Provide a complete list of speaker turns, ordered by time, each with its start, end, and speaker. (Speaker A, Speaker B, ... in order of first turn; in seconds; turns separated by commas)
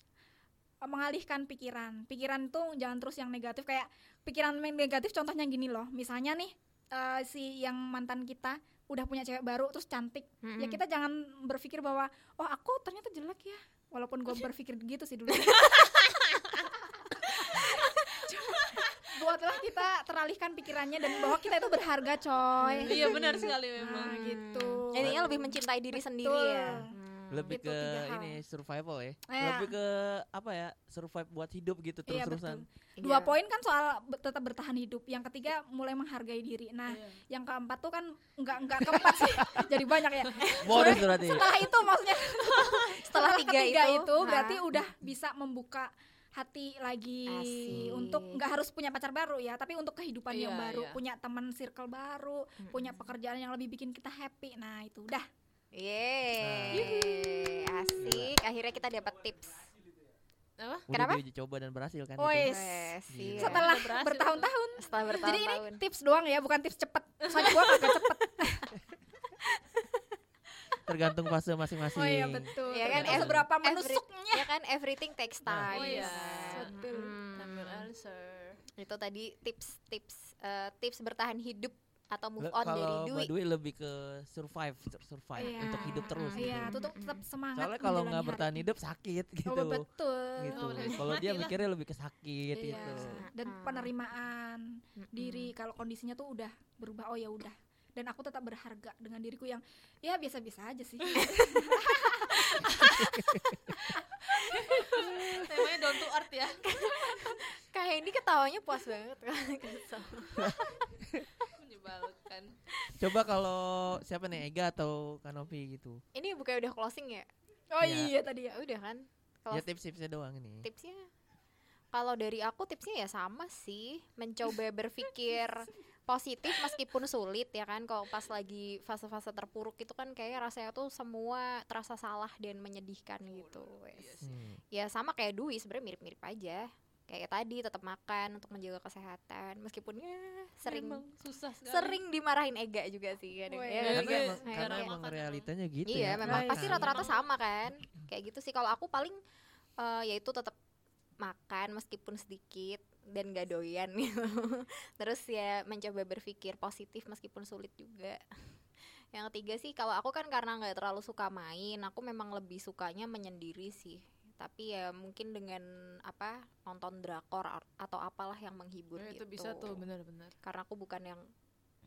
Speaker A: 0.8-16.0, Speaker B: 10.4-10.8, Speaker B: 15.5-15.8, Speaker A: 17.1-26.9, Speaker B: 22.6-27.6, Speaker C: 22.9-24.3, Speaker D: 25.0-25.2, Speaker D: 27.3-32.6, Speaker A: 27.5-28.4, Speaker A: 29.3-29.7, Speaker A: 32.1-55.3, Speaker B: 33.0-33.4, Speaker C: 36.9-37.1, Speaker D: 39.1-39.7, Speaker B: 40.4-41.2, Speaker D: 40.5-41.5, Speaker B: 42.9-44.8, Speaker B: 47.3-48.4, Speaker C: 50.3-51.0, Speaker B: 52.6-53.1, Speaker B: 55.7-59.7, Speaker D: 56.4-57.0, Speaker C: 56.7-57.6, Speaker D: 58.0-58.3, Speaker C: 60.6-60.9, Speaker D: 60.9-62.6, Speaker B: 60.9-61.2, Speaker A: 62.2-68.7, Speaker B: 62.4-63.7, Speaker D: 63.1-63.7, Speaker C: 63.4-64.5, Speaker B: 64.8-65.8, Speaker C: 67.3-67.7, Speaker D: 70.9-73.5, Speaker A: 71.9-74.5, Speaker B: 72.6-77.9, Speaker A: 75.7-77.2, Speaker C: 75.7-78.6, Speaker B: 78.8-83.3, Speaker D: 82.4-86.8, Speaker A: 85.4-88.6, Speaker B: 85.5-87.2, Speaker D: 87.5-89.8, Speaker A: 89.5-91.0, Speaker D: 90.4-93.2, Speaker C: 90.5-91.6, Speaker A: 92.5-105.1, Speaker B: 92.7-93.9, Speaker B: 95.0-95.5, Speaker C: 104.3-106.7, Speaker B: 106.7-110.7, Speaker C: 111.5-112.6, Speaker D: 113.0-116.0, Speaker B: 116.1-117.3, Speaker A: 117.7-118.5, Speaker D: 117.8-118.1, Speaker B: 118.5-119.7, Speaker D: 119.5-120.7, Speaker B: 120.6-121.1, Speaker B: 121.9-141.1, Speaker C: 133.2-134.3, Speaker D: 134.2-134.6, Speaker C: 140.7-142.0, Speaker B: 141.7-144.9, Speaker A: 143.5-144.2, Speaker C: 143.7-145.5, Speaker D: 143.9-147.1, Speaker B: 145.9-149.2, Speaker A: 146.2-146.8, Speaker C: 146.6-147.2, Speaker B: 149.8-150.6, Speaker B: 151.2-158.2, Speaker B: 159.1-169.8, Speaker C: 169.0-170.4, Speaker B: 170.4-171.3